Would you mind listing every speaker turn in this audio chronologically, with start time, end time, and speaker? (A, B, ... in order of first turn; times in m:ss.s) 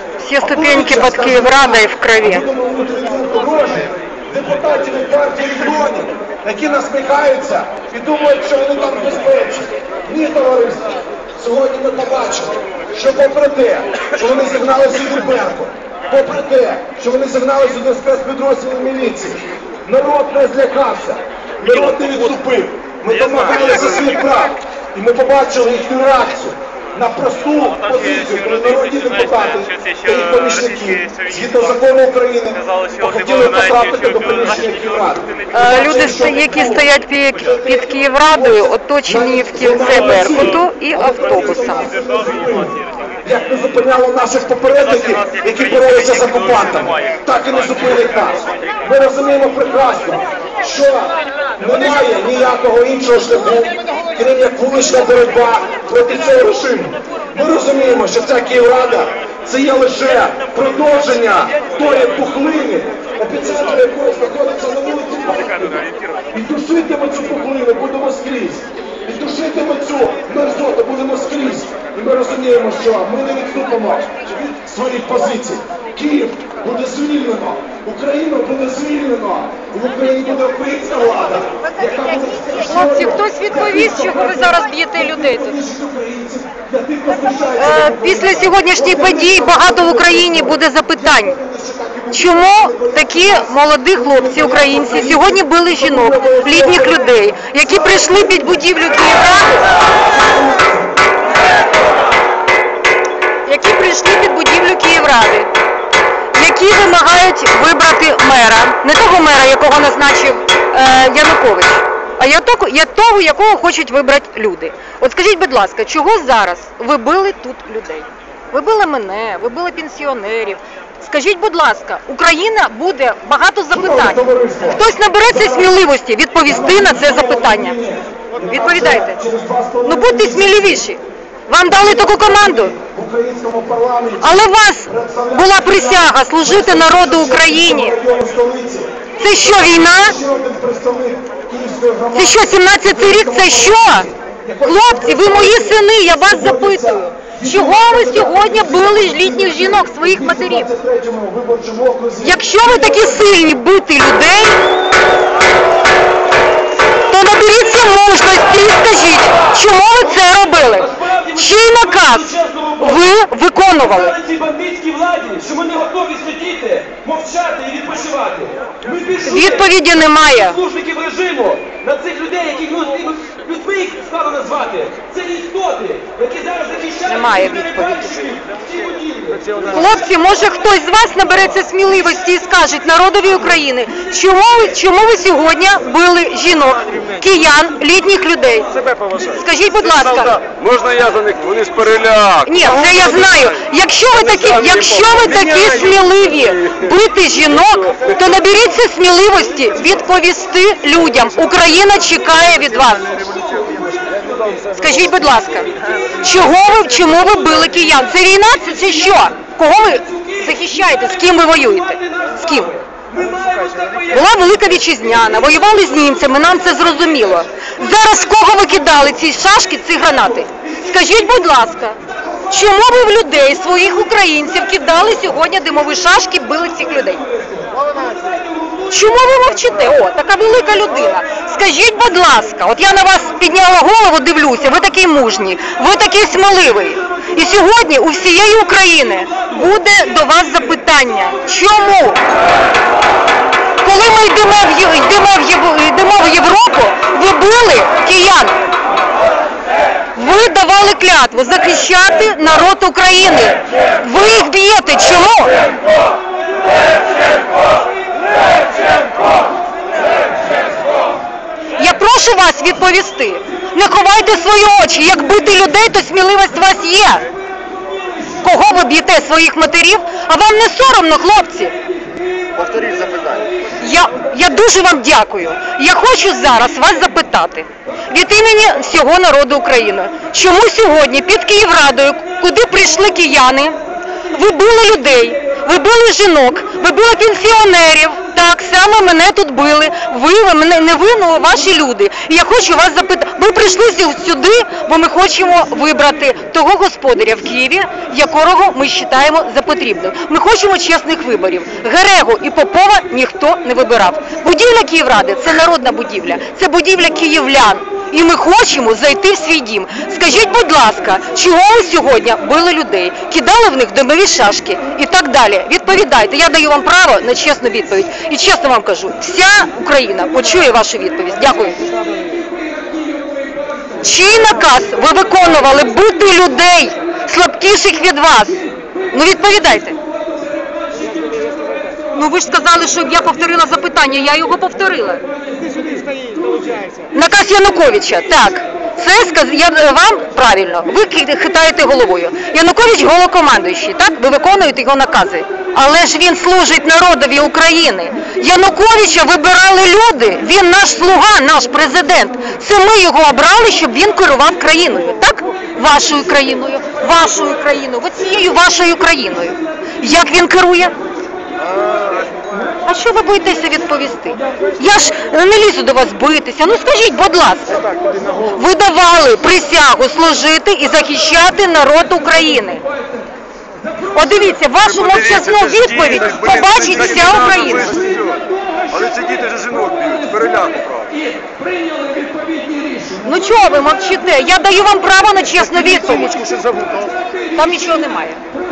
0:00.2-0:02.4 A
0:00.4-1:38.7 B
0:21.9-0:22.2 C
0:35.5-0:41.9 A
1:22.6-1:25.6 A
1:27.6-1:31.4 A
1:32.1-1:39.7 A
1:40.1-1:41.0 B
1:43.5-1:45.5 A
1:46.3-2:07.8 A
2:03.7-2:05.8 B
2:06.4-2:10.8 B
2:08.4-2:09.2 A
2:09.8-2:12.7 A
2:11.7-2:33.2 B
2:14.2-2:18.0 A
2:19.2-2:20.2 A
2:22.1-2:24.1 A
2:24.6-2:30.7 A
2:32.2-2:34.6 A
2:37.1-2:44.2 A
2:42.4-2:42.6 D
2:44.2-2:49.1 D
2:49.2-2:50.6 A
2:50.6-2:57.4 D
2:57.0-2:58.2 A
2:58.9-2:59.4 D
2:59.5-2:59.8 C
2:59.6-3:10.4 A
3:08.7-3:13.6 C
3:12.5-3:23.1 A
3:14.1-3:16.8 C
3:23.2-3:24.7 D
3:24.3-3:24.9 C
3:24.8-3:32.7 A
3:33.0-3:34.0 D
3:34.1-3:42.0 A
3:42.5-3:47.2 A
3:47.8-3:48.3 D
3:48.9-4:02.2 A
4:03.8-4:08.6 A
4:10.1-4:15.6 A
4:21.8-4:27.3 A
4:28.4-4:31.7 A
4:32.6-4:33.4 D
4:33.8-4:43.8 A
4:44.3-5:21.8 A
5:24.0-5:30.0 A
5:32.1-5:35.3 A
5:35.6-5:36.6 D
5:37.1-6:00.9 A
6:01.7-6:02.3 C
6:02.8-6:07.8 A
6:07.8-6:08.5 C
6:08.5-6:12.8 A
6:14.1-6:18.0 A
6:14.8-6:18.3 C
6:16.5-6:20.8 D
6:19.0-6:21.1 C
6:21.4-6:23.1 D
6:23.2-6:26.4 A
6:26.2-6:27.1 C
6:27.5-6:28.4 A